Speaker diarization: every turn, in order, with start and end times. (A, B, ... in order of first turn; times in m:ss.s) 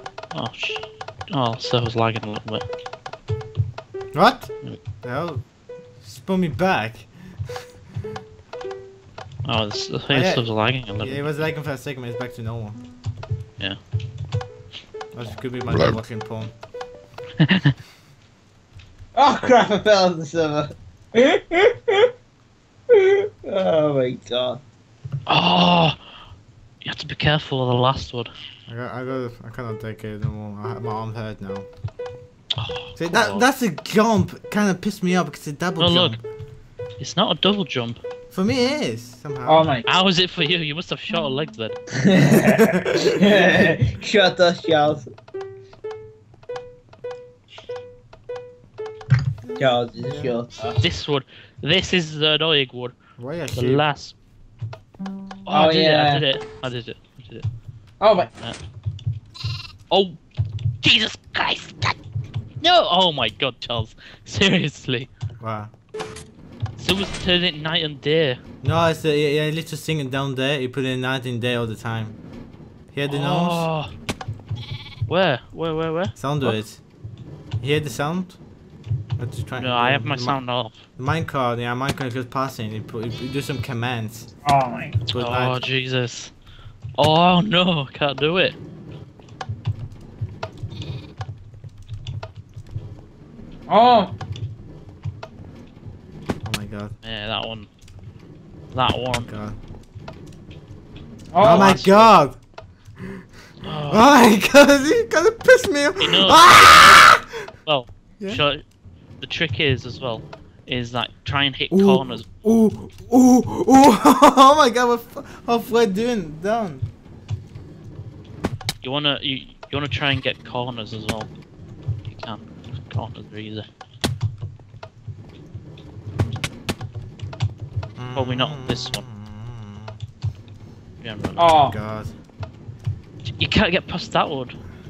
0:00.3-0:02.6 A
0:04.1-0:05.4 B
0:06.0-0:07.6 B
0:09.4-0:11.5 A
0:10.1-0:12.8 B
0:15.1-0:16.5 B
0:17.4-0:17.8 A
0:19.1-0:22.1 C
0:22.9-0:24.6 C
0:25.3-0:26.0 A
0:26.8-0:28.3 A
0:28.7-0:31.7 B
0:32.6-0:33.4 A
0:33.0-0:36.2 B
0:35.8-0:36.2 A
0:37.0-0:38.0 A
0:38.3-0:39.6 B
0:39.5-0:39.9 C
0:39.9-0:41.8 A
0:41.9-0:45.1 C
0:42.2-0:43.8 B
0:49.5-0:50.4 B
0:49.6-0:50.8 C
0:50.8-0:52.9 A
0:53.2-0:53.8 B
0:53.5-0:54.1 A
0:55.5-0:57.5 A
0:55.5-0:56.2 C
0:58.0-0:58.3 C
0:59.9-1:00.2 A
1:00.8-1:02.0 A
1:02.6-1:05.1 A
1:05.4-1:05.7 B
1:06.8-1:08.4 A
1:08.6-1:12.2 B
1:12.9-1:13.7 B
1:13.1-1:13.9 A
1:15.1-1:16.6 A
1:16.2-1:16.8 B
1:17.6-1:18.4 B
1:19.2-1:24.3 B
1:19.6-1:20.9 A
1:24.4-1:25.0 C
1:25.1-1:25.6 B
1:25.1-1:26.3 A
1:27.0-1:28.6 A
1:33.7-1:34.1 C
1:36.4-1:37.0 B
1:37.0-1:37.7 A
1:38.7-1:39.3 A
1:39.2-1:39.6 B
1:41.3-1:41.8 C
1:41.4-1:42.4 B
1:41.4-1:42.1 A
1:43.6-1:44.1 A
1:43.9-1:47.4 B
1:46.0-1:48.6 A
1:49.2-1:52.3 A
1:51.7-1:56.9 B
1:58.8-2:01.3 A
2:02.1-2:03.6 A
2:08.0-2:10.0 B
2:08.1-2:09.0 A
2:11.0-2:11.5 A
2:11.4-2:11.8 C
2:11.5-2:12.2 B
2:13.3-2:14.6 A